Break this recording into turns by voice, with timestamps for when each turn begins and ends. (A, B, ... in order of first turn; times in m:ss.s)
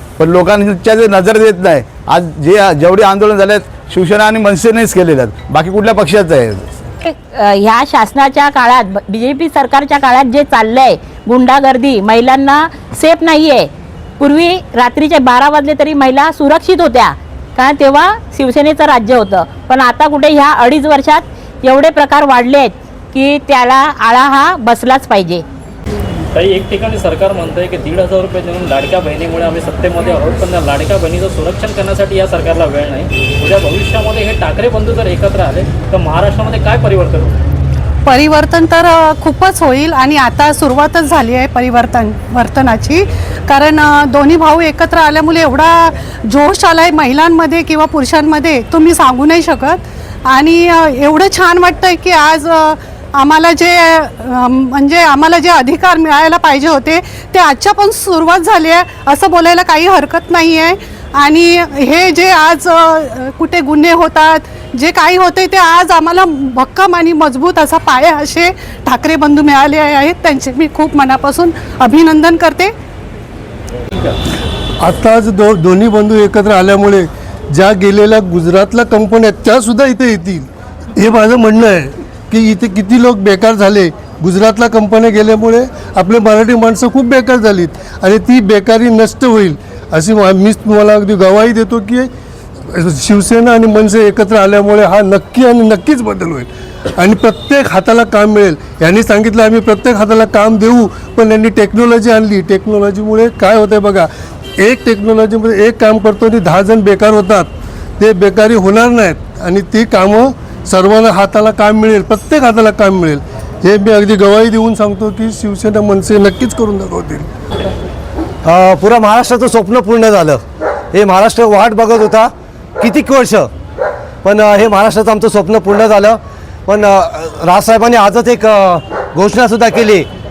0:00.2-0:06.8 A
0:07.0-0:25.4 B
0:26.3-0:37.4 C
0:38.1-0:49.8 D
0:50.3-1:12.7 D
1:14.8-1:32.1 E
1:32.7-1:57.2 E
1:58.4-2:00.4 F
2:00.9-2:03.5 F
2:04.2-2:10.1 F